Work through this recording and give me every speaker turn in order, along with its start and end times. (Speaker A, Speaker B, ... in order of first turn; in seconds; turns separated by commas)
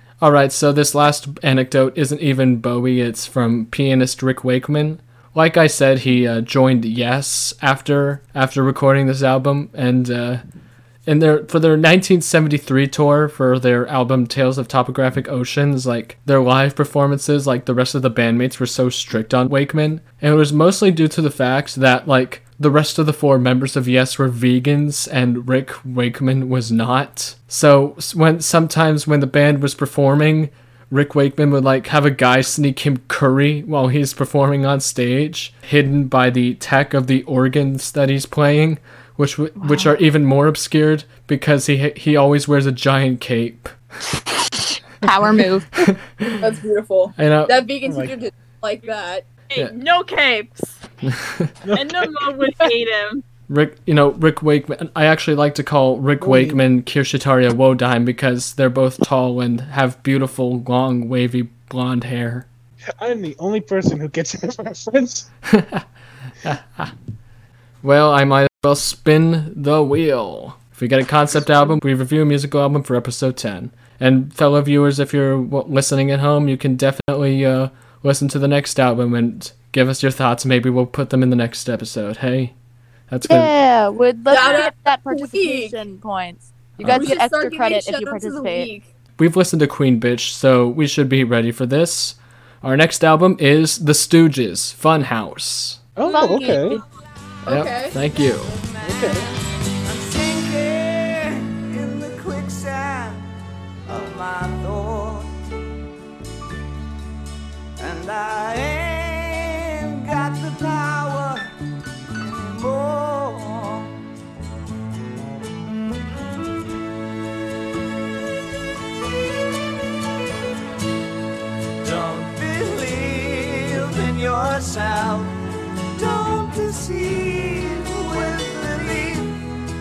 Speaker A: 0.2-10.4, Speaker A: 11.1-43.7, Speaker B: 39.6-39.9, Speaker B: 44.3-45.8, Speaker A: 45.8-46.4, Speaker C: 46.4-49.2, Speaker A: 47.1-47.6, Speaker D: 47.8-48.2, Speaker E: 49.5-50.8, Speaker A: 51.0-51.5, Speaker D: 51.6-52.5, Speaker E: 51.7-53.2, Speaker A: 53.5-62.5, Speaker D: 56.2-56.6, Speaker D: 63.0-65.3, Speaker A: 65.5-65.8, Speaker A: 66.4-66.9, Speaker A: 67.8-82.5, Speaker A: 83.1-83.5, Speaker B: 83.3-88.7, Speaker C: 84.3-85.8, Speaker A: 86.8-87.1, Speaker C: 86.9-88.9, Speaker A: 89.2-95.8, Speaker D: 96.0-96.8, Speaker B: 96.0-96.8, Speaker C: 97.5-98.0, Speaker A: 97.5-98.6, Speaker F: 98.6-99.3, Speaker D: 98.8-99.3, Speaker F: 99.8-103.2, Speaker F: 103.8-105.3, Speaker F: 107.8-111.5, Speaker F: 112.1-113.9, Speaker F: 121.8-125.3, Speaker F: 125.9-129.4